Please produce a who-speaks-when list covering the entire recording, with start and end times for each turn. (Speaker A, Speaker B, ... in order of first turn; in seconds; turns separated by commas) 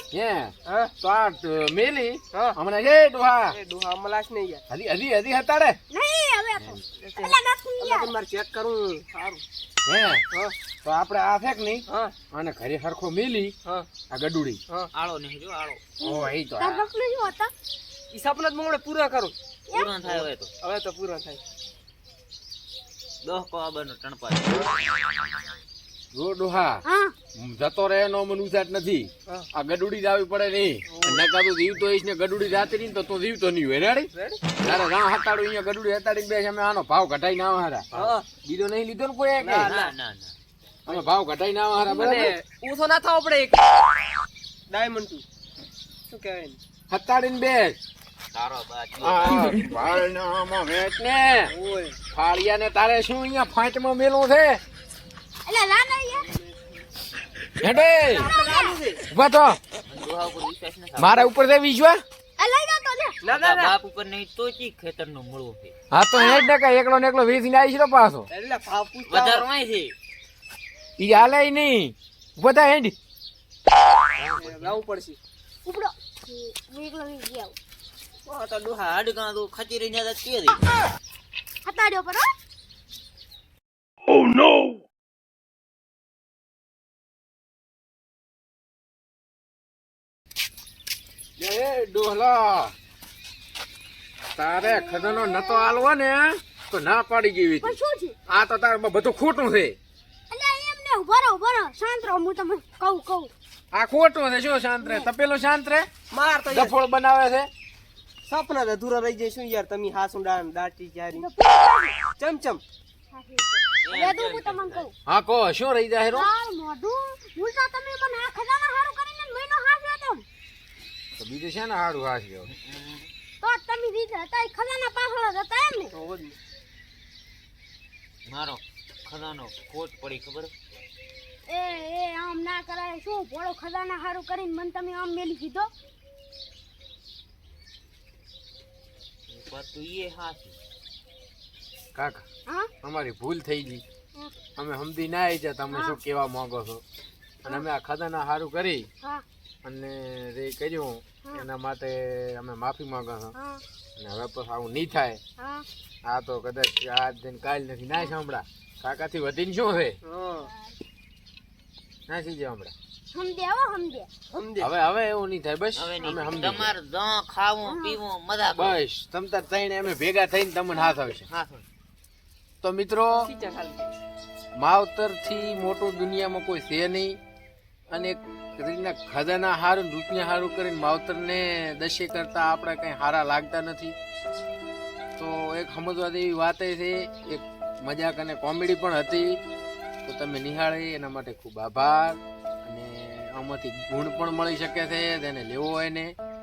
Speaker A: 0.1-3.6, Speaker B: 0.7-0.9, Speaker B: 3.5-4.6, Speaker A: 4.7-5.8, Speaker C: 5.9-8.1, Speaker B: 7.0-9.4, Speaker A: 9.9-10.2, Speaker A: 10.8-13.6, Speaker B: 11.9-12.2, Speaker A: 14.1-14.6, Speaker D: 14.9-15.8, Speaker A: 16.0-16.9, Speaker C: 16.0-17.5, Speaker B: 18.1-19.4, Speaker D: 19.7-20.5, Speaker B: 20.0-21.4, Speaker D: 23.2-24.7, Speaker A: 26.1-26.8, Speaker C: 26.9-27.1, Speaker A: 27.4-39.7, Speaker B: 30.9-31.2, Speaker B: 34.1-34.4, Speaker B: 37.9-38.2, Speaker B: 39.4-39.9, Speaker D: 39.5-40.3, Speaker A: 40.9-42.4, Speaker B: 41.9-43.8, Speaker B: 44.7-45.2, Speaker B: 46.1-46.6, Speaker A: 46.9-47.8, Speaker D: 48.3-49.8, Speaker A: 49.0-51.5, Speaker B: 51.5-52.0, Speaker A: 52.1-54.6, Speaker C: 55.5-56.3, Speaker B: 56.3-56.9, Speaker A: 57.6-58.3, Speaker B: 58.1-59.0, Speaker C: 58.4-58.8, Speaker A: 59.1-59.6, Speaker D: 59.9-61.3, Speaker A: 61.0-62.0, Speaker C: 62.4-63.2, Speaker B: 63.2-63.8, Speaker D: 63.3-65.7, Speaker A: 65.9-68.3, Speaker C: 66.2-66.5, Speaker B: 68.3-69.5, Speaker D: 69.1-69.9, Speaker A: 71.0-73.0, Speaker D: 74.2-74.8, Speaker B: 74.4-75.2, Speaker C: 75.7-77.6, Speaker B: 78.3-78.8, Speaker D: 78.6-80.7, Speaker C: 81.7-82.3, Speaker A: 84.1-84.8, Speaker A: 91.4-92.7, Speaker A: 94.4-97.8, Speaker C: 94.6-95.9, Speaker C: 97.6-98.2, Speaker A: 98.3-99.8, Speaker C: 100.3-103.3, Speaker A: 103.7-105.9, Speaker C: 104.8-105.1, Speaker B: 106.1-106.7, Speaker A: 106.5-107.5, Speaker B: 108.3-111.3, Speaker C: 111.2-112.0, Speaker B: 112.2-112.6, Speaker C: 113.1-114.9, Speaker D: 113.8-114.9, Speaker A: 115.1-116.3, Speaker C: 116.1-120.2, Speaker A: 121.2-122.5, Speaker D: 122.5-123.1, Speaker C: 123.4-125.9, Speaker B: 125.9-126.4, Speaker D: 128.3-130.5, Speaker C: 131.5-135.7, Speaker D: 139.3-140.6, Speaker A: 141.9-142.2, Speaker A: 142.8-143.8, Speaker A: 144.6-146.8, Speaker C: 145.7-146.0, Speaker A: 147.4-148.9, Speaker A: 149.6-153.3, Speaker C: 153.3-153.6, Speaker A: 154.0-155.2, Speaker C: 155.4-155.7, Speaker A: 156.1-160.0, Speaker B: 160.0-160.5, Speaker A: 162.1-162.7, Speaker C: 163.1-164.1, Speaker B: 164.3-164.7, Speaker A: 164.6-166.7, Speaker D: 165.8-168.8, Speaker C: 167.7-168.0, Speaker A: 168.6-171.3, Speaker D: 171.3-171.7, Speaker A: 172.6-173.2, Speaker B: 173.2-173.9, Speaker A: 174.6-177.2, Speaker A: 177.9-184.0, Speaker A: 185.2-189.4, Speaker A: 190.1-196.1